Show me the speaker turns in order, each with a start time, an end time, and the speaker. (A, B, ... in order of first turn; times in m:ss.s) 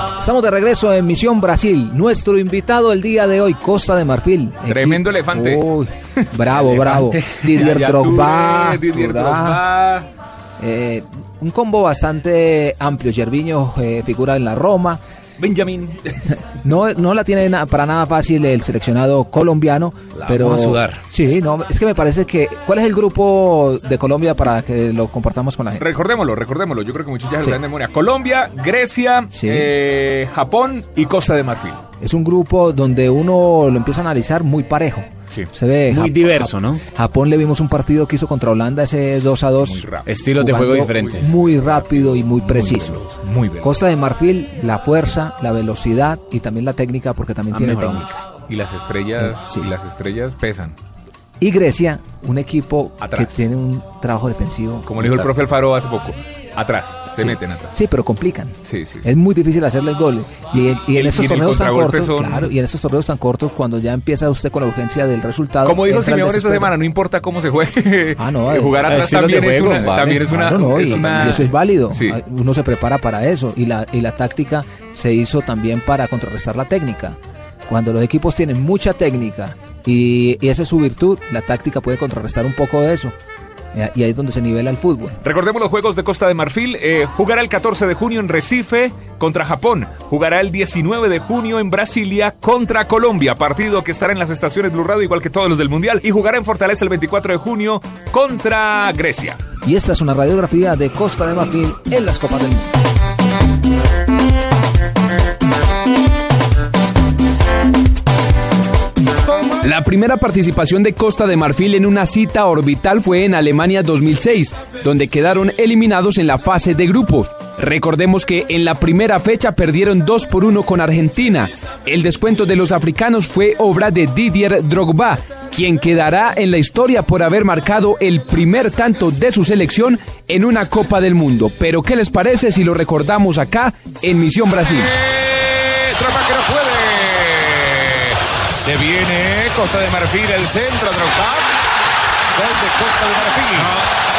0:00.1-0:09.6 A
0:04.6-0:05.6 B
0:06.4-0:06.9 B
0:06.7-0:07.4 C
0:07.5-0:10.1 B
0:10.6-0:15.0 A
0:15.4-0:16.3 B
0:16.3-0:25.9 A
0:20.3-0:21.0 C
0:25.8-0:31.8 B
0:29.4-0:29.7 A
0:32.0-0:39.8 A
0:35.9-0:36.8 C
0:39.6-0:40.1 B
0:40.0-0:41.2 C
0:40.4-0:43.0 A
0:40.9-0:43.7 B
0:43.6-0:48.2 A
0:47.5-0:50.8 B
0:49.2-0:49.7 A
0:51.4-0:55.1 A
0:53.0-0:53.5 B
0:54.8-0:57.7 B
0:57.1-1:06.7 A
0:58.6-0:59.1 B
1:00.9-1:02.5 B
1:05.6-1:12.2 B
1:08.2-1:08.9 A
1:08.8-1:10.1 C
1:10.0-1:23.1 A
1:10.9-1:11.4 C
1:23.7-1:25.2 A
1:25.2-1:39.4 B
1:39.6-1:42.8 A
1:49.6-2:14.9 D
2:14.7-2:21.5 E
2:22.3-2:23.8 E